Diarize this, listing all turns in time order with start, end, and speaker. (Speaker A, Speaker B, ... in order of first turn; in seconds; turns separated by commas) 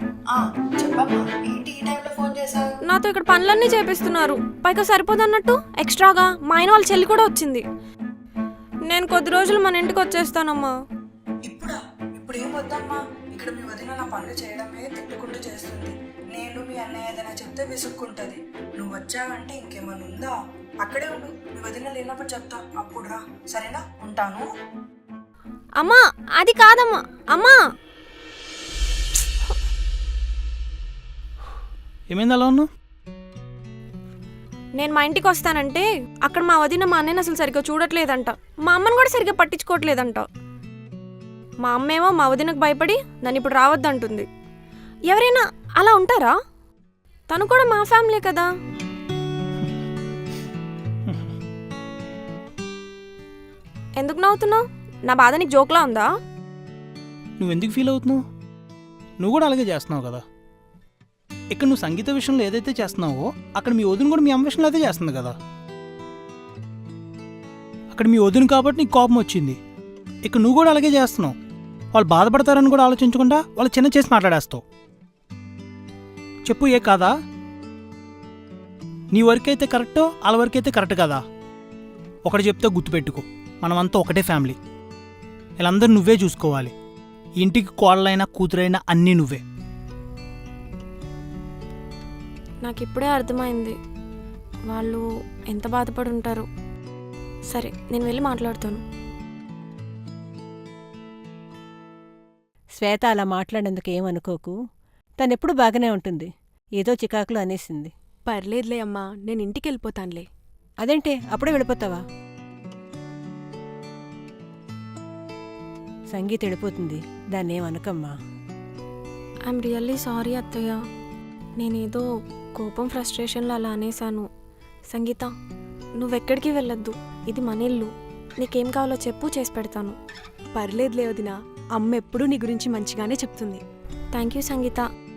Speaker A: 0.3-2.6, Speaker B: 2.9-7.6, Speaker B: 8.8-10.7, Speaker A: 11.4-24.4, Speaker B: 25.8-27.6, Speaker C: 32.1-32.7, Speaker B: 34.8-40.2, Speaker B: 41.6-44.2, Speaker B: 45.1-46.3, Speaker B: 47.3-48.5, Speaker B: 54.0-56.1, Speaker C: 57.4-58.2, Speaker C: 59.2-60.2, Speaker C: 61.5-65.3, Speaker C: 67.9-69.6, Speaker C: 70.2-71.3, Speaker C: 71.9-74.6, Speaker C: 76.4-77.1, Speaker C: 79.1-81.2, Speaker C: 82.2-84.5, Speaker C: 85.6-86.7, Speaker C: 87.4-89.4, Speaker B: 92.6-93.7, Speaker B: 94.7-96.5, Speaker B: 97.5-98.8, Speaker D: 102.8-104.5, Speaker D: 105.2-107.9, Speaker E: 108.2-110.3, Speaker D: 110.8-112.0, Speaker D: 116.1-118.1, Speaker B: 119.5-120.8, Speaker B: 121.6-124.3, Speaker B: 124.9-125.3, Speaker B: 126.0-129.9, Speaker E: 130.5-133.6, Speaker B: 134.1-134.8